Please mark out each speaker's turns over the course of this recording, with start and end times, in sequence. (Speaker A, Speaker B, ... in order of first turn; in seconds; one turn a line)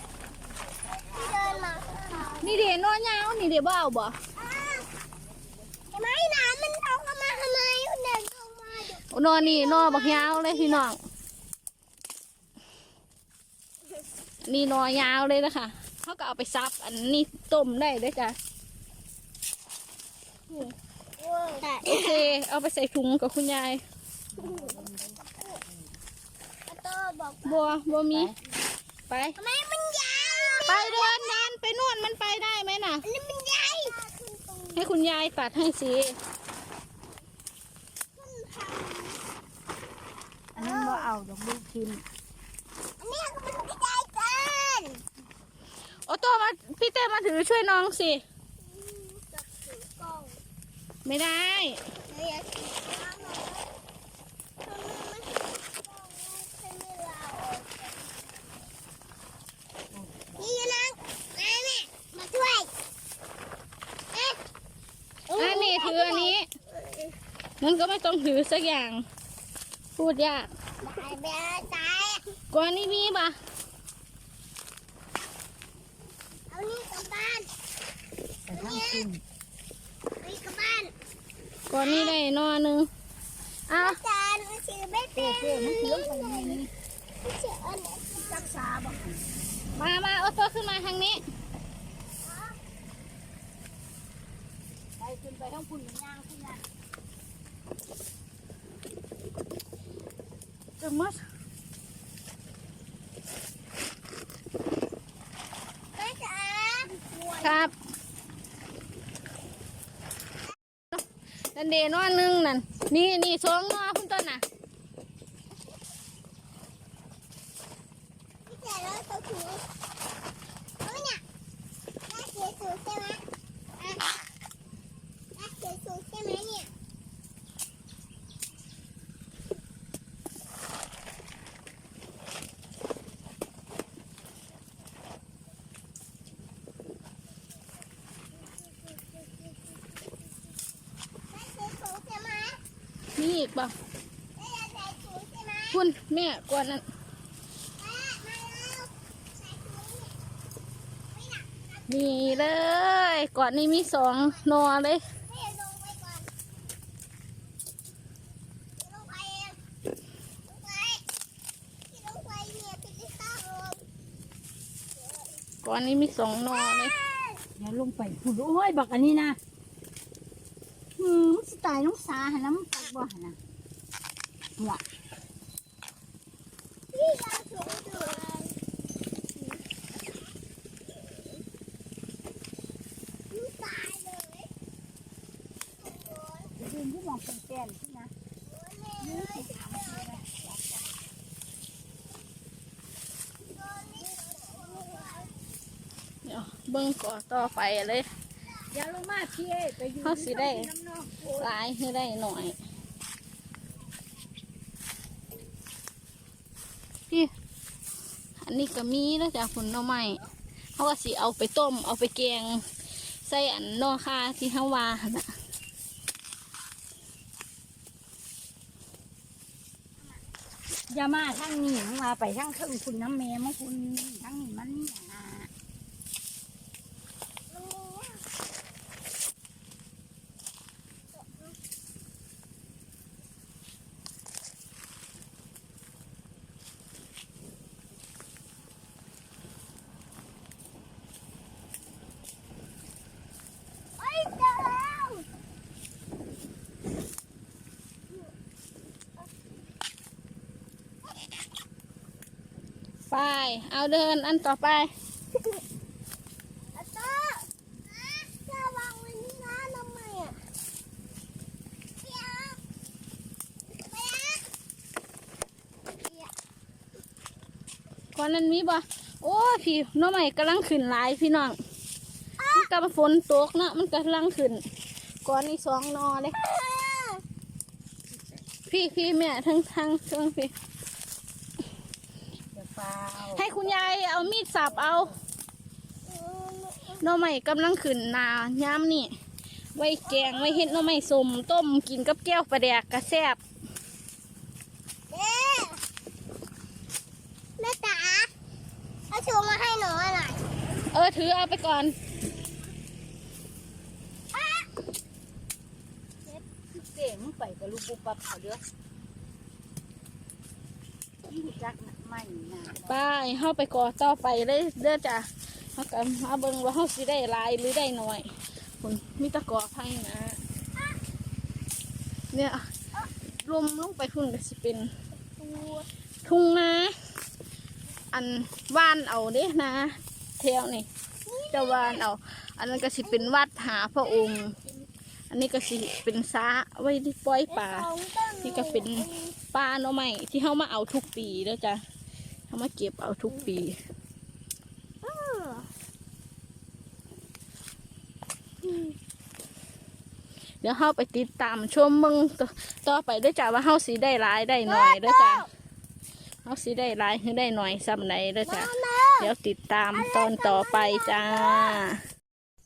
Speaker A: 1.0-1.5
Speaker B: 1.1-2.5
Speaker A: 2.1-2.6
Speaker C: 2.4-4.2
Speaker B: 4.4-4.9
Speaker B: 5.9-10.9
Speaker C: 9.1-11.0
Speaker C: 14.4-18.4
Speaker B: 21.2-22.3
Speaker C: 21.8-23.8
Speaker A: 24.4-25.9
Speaker B: 24.4-24.8
Speaker B: 26.7-27.7
Speaker C: 27.4-28.3
Speaker A: 28.1-28.4
Speaker C: 29.1-29.4
Speaker B: 29.4-31.4
Speaker C: 30.6-33.0
Speaker B: 33.0-34.9
Speaker C: 34.8-36.2
Speaker B: 38.2-39.2
Speaker A: 40.5-42.0
Speaker B: 40.6-41.0
Speaker B: 43.0-45.0
Speaker C: 46.1-48.2
Speaker B: 48.6-50.4
Speaker C: 51.0-51.8
Speaker B: 52.0-53.6
Speaker B: 54.6-58.4
Speaker A: 59.9-60.6
Speaker B: 60.4-62.7
Speaker B: 64.1-64.4
Speaker B: 65.3-67.1
Speaker C: 65.4-66.5
Speaker C: 67.6-69.0
Speaker C: 70.0-70.5
Speaker B: 70.8-72.3
Speaker C: 72.5-73.3
Speaker B: 76.5-77.5
Speaker A: 78.5-79.2
Speaker B: 78.5-79.1
Speaker B: 80.2-80.9
Speaker C: 81.7-82.9
Speaker B: 81.8-82.1
Speaker C: 83.7-84.0
Speaker B: 83.7-86.6
Speaker A: 85.2-86.7
Speaker B: 87.2-88.5
Speaker A: 88.2-89.2
Speaker C: 89.8-91.2
Speaker B: 92.2-92.6
Speaker A: 95.0-96.6
Speaker C: 100.8-101.2
Speaker B: 106.0-107.5
Speaker C: 107.4-107.7
Speaker C: 111.5-114.4
Speaker B: 118.5-119.7
Speaker B: 120.8-121.2
Speaker B: 122.1-123.2
Speaker B: 123.8-124.2
Speaker B: 125.4-126.7
Speaker B: 141.3-142.6
Speaker C: 143.2-143.7
Speaker B: 144.4-145.8
Speaker C: 145.7-146.8
Speaker B: 147.8-150.1
Speaker B: 151.1-152.5
Speaker C: 151.9-155.0
Speaker B: 155.3-156.3
Speaker B: 158.8-159.6
Speaker B: 160.5-161.1
Speaker B: 161.9-163.8
Speaker C: 165.6-166.9
Speaker B: 166.5-167.4
Speaker A: 167.6-169.4
Speaker A: 171.0-173.4
Speaker B: 176.9-178.6
Speaker B: 183.3-184.5
Speaker B: 185.8-186.5
Speaker A: 186.6-188.1
Speaker B: 188.4-190.9
Speaker A: 189.0-190.9
Speaker B: 193.5-195.3
Speaker C: 196.2-198.1
Speaker A: 198.7-201.6
Speaker C: 200.0-200.7
Speaker C: 201.3-202.6
Speaker C: 208.4-210.2
Speaker C: 210.8-212.6
Speaker C: 213.2-215.3
Speaker A: 220.9-225.5
Speaker B: 227.5-228.2
Speaker B: 231.2-231.5
Speaker B: 244.0-245.2
Speaker C: 253.1-254.9
Speaker B: 256.7-260.4
Speaker B: 262.0-262.6
Speaker B: 263.8-264.4
Speaker C: 268.1-271.6
Speaker B: 272.4-272.7
Speaker C: 272.5-274.6
Speaker C: 275.2-276.4
Speaker B: 276.4-277.2
Speaker C: 278.7-280.5
Speaker A: 282.5-283.6
Speaker C: 283.3-285.1
Speaker A: 284.5-285.1
Speaker B: 286.1-287.0
Speaker C: 287.0-289.1
Speaker C: 289.8-293.4
Speaker B: 290.0-290.8
Speaker B: 295.1-295.8
Speaker B: 297.6-298.3
Speaker B: 299.1-300.5
Speaker C: 300.9-301.9
Speaker B: 302.2-302.7
Speaker B: 304.3-304.7
Speaker A: 306.2-308.6
Speaker A: 311.3-313.0
Speaker C: 312.9-318.3
Speaker C: 318.8-320.4
Speaker C: 322.3-322.6
Speaker C: 323.4-324.9
Speaker B: 325.4-325.9
Speaker C: 326.2-326.9
Speaker C: 328.1-330.9
Speaker B: 331.3-332.0
Speaker C: 331.5-334.6
Speaker B: 333.0-333.3
Speaker C: 335.3-337.9
Speaker B: 337.5-339.4
Speaker C: 338.4-341.8
Speaker C: 342.5-343.8
Speaker B: 345.0-345.7
Speaker B: 348.6-348.9
Speaker C: 350.6-355.5
Speaker B: 354.7-355.5
Speaker C: 356.4-362.0
Speaker B: 358.4-359.3
Speaker B: 359.9-361.8